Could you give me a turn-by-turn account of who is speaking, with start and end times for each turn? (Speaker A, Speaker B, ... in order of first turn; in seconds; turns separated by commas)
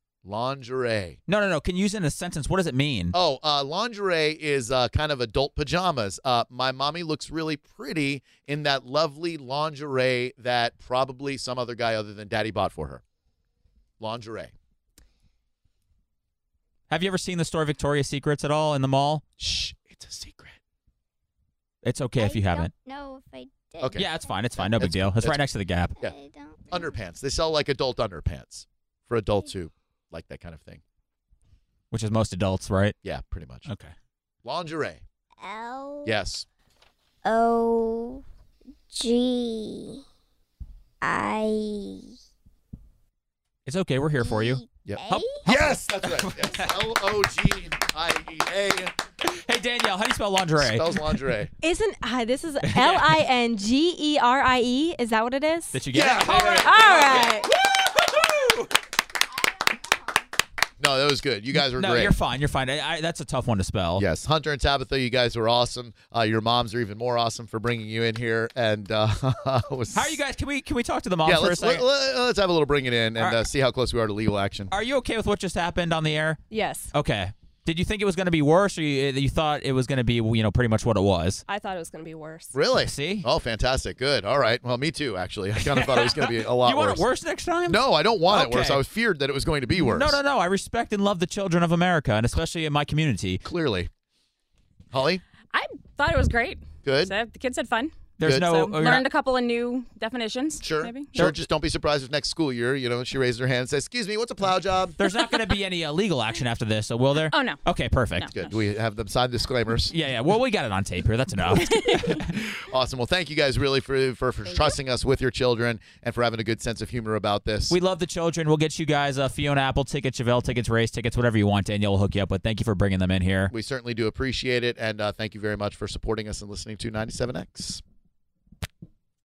Speaker A: 0.2-1.2, Speaker B: 1.3-3.1, Speaker A: 3.1-13.0, Speaker A: 14.0-14.5, Speaker B: 16.9-19.2, Speaker A: 19.4-20.6, Speaker B: 21.8-22.7, Speaker C: 22.2-24.3, Speaker A: 23.8-25.4, Speaker B: 23.9-25.9, Speaker C: 26.0-26.9, Speaker A: 26.7-30.8, Speaker B: 31.9-33.0, Speaker A: 33.0-33.7, Speaker B: 33.7-33.9, Speaker A: 34.4-35.0, Speaker C: 35.4-36.1, Speaker A: 36.0-36.5, Speaker C: 37.2-38.2, Speaker C: 38.9-40.0, Speaker C: 41.0-42.1, Speaker B: 43.6-46.7, Speaker C: 44.2-45.4, Speaker A: 44.8-48.9, Speaker B: 49.3-51.2, Speaker A: 50.6-51.5, Speaker D: 51.6-55.8, Speaker B: 52.6-53.2, Speaker B: 55.7-58.7, Speaker A: 55.9-57.4, Speaker D: 56.5-57.5, Speaker A: 60.8-62.1, Speaker B: 61.7-64.0, Speaker A: 64.0-70.2, Speaker B: 69.9-71.8, Speaker A: 71.2-74.7, Speaker B: 73.2-73.4, Speaker B: 74.7-76.4, Speaker E: 76.5-76.9, Speaker B: 76.9-81.4, Speaker E: 81.5-82.5, Speaker A: 82.5-87.0, Speaker B: 82.8-83.2, Speaker B: 85.7-88.8, Speaker A: 87.7-90.2, Speaker B: 89.8-93.4, Speaker A: 93.4-93.9, Speaker A: 94.9-95.2, Speaker E: 95.5-101.2, Speaker A: 96.8-97.1, Speaker B: 98.2-99.1, Speaker A: 98.2-98.5, Speaker A: 100.6-105.0, Speaker B: 105.0-108.3, Speaker E: 107.3-107.6, Speaker A: 108.3-109.9, Speaker B: 109.9-112.4, Speaker A: 112.6-117.8, Speaker B: 117.7-123.5, Speaker A: 123.5-127.8